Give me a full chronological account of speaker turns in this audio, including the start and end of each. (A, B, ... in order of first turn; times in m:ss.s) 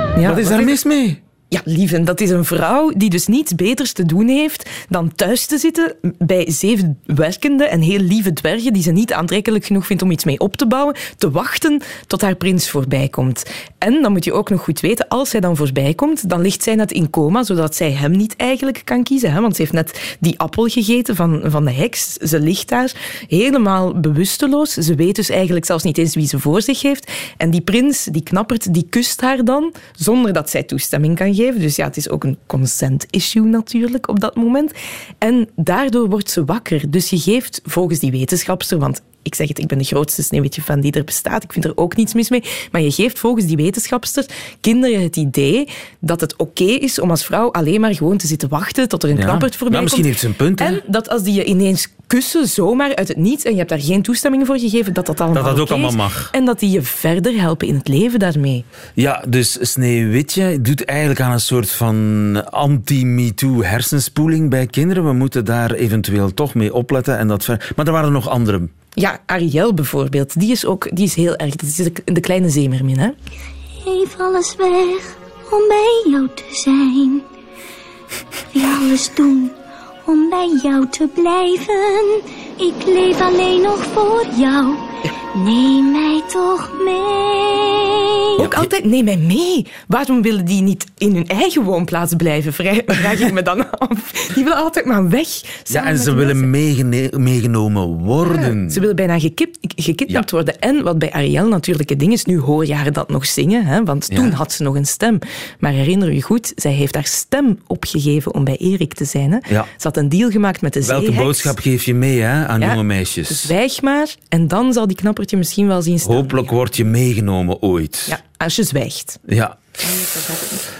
0:00.2-0:00.7 A
0:00.2-0:01.2 B
0:01.5-0:58.6 A
0:49.1-0:50.8 B
0:55.3-0:56.3 B
0:59.0-1:08.7 B
1:09.0-1:13.1 A
1:13.8-1:17.2 C
1:18.5-1:19.5 C
1:20.0-1:24.8 C
1:25.3-1:27.8 C
1:28.4-1:28.7 B
1:28.4-1:36.5 A
1:35.7-1:38.8 B
1:38.2-1:51.5 A
1:44.1-1:44.3 B
1:50.8-1:53.5 B
1:52.6-1:56.5 A
1:56.0-1:58.2 B
1:58.1-1:59.2 A
1:59.3-1:59.6 B
1:59.8-2:00.6 A